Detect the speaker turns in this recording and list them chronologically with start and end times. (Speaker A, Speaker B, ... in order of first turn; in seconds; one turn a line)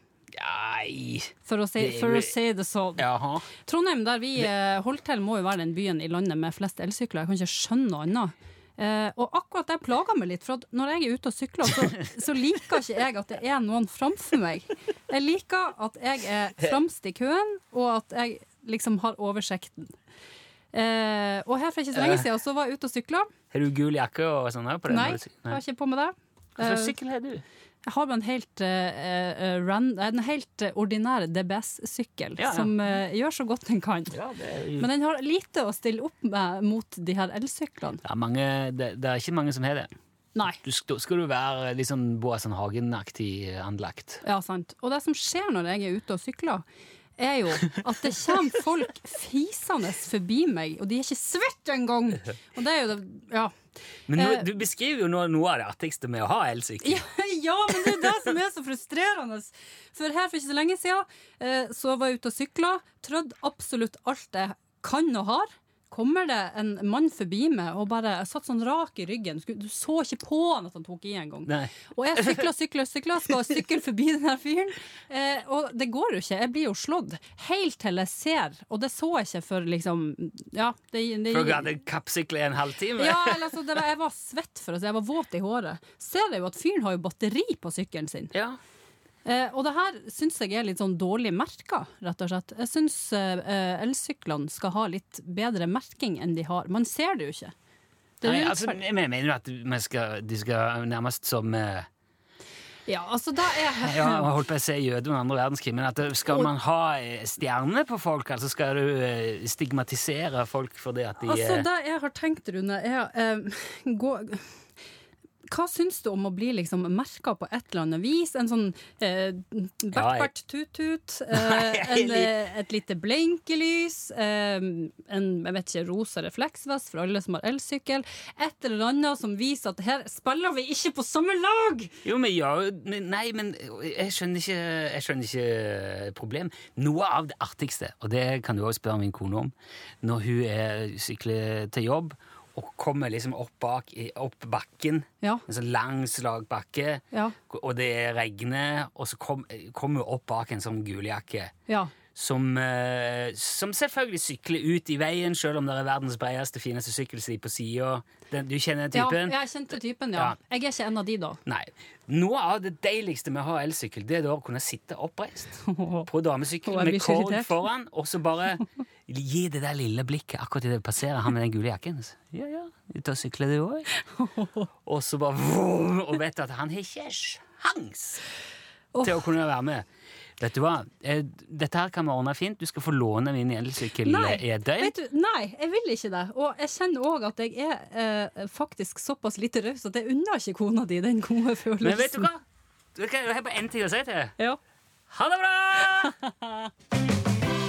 Speaker A: 0.3-2.3
Speaker B: 1.5-19.9
Speaker A: 3.0-3.5
Speaker B: 20.7-23.3
Speaker A: 21.9-22.3
Speaker A: 23.5-25.6
Speaker B: 24.9-26.9
Speaker A: 26.6-27.4
Speaker B: 27.9-34.1
Speaker A: 32.4-32.8
Speaker A: 34.1-34.9
Speaker B: 34.8-38.0
Speaker A: 38.0-39.9
Speaker A: 40.6-44.2
Speaker B: 44.2-46.6
Speaker B: 47.2-53.5
Speaker A: 54.1-57.0
Speaker B: 54.2-54.5
Speaker B: 56.8-81.7
Speaker A: 71.5-72.5
Speaker A: 81.3-83.5
Speaker B: 83.0-88.3
Speaker A: 88.3-88.6
Speaker B: 89.2-97.5
Speaker B: 98.2-98.8
Speaker A: 98.2-101.9
Speaker B: 102.9-104.3
Speaker A: 103.8-111.7
Speaker B: 111.2-114.5
Speaker B: 115.5-131.9
Speaker A: 119.9-120.3
Speaker A: 121.3-122.3
Speaker A: 132.0-151.5
Speaker B: 147.1-147.4
Speaker B: 151.7-151.9
Speaker A: 152.2-159.4
Speaker B: 158.9-161.4
Speaker A: 161.5-173.9
Speaker B: 165.7-166.1
Speaker B: 166.6-167.7
Speaker B: 173.9-174.7
Speaker A: 174.9-178.2
Speaker B: 178.9-179.2
Speaker A: 179.0-179.8
Speaker A: 180.4-184.9
Speaker B: 184.0-192.3
Speaker A: 191.8-192.4
Speaker A: 192.9-194.3
Speaker A: 195.1-196.2
Speaker B: 196.0-196.5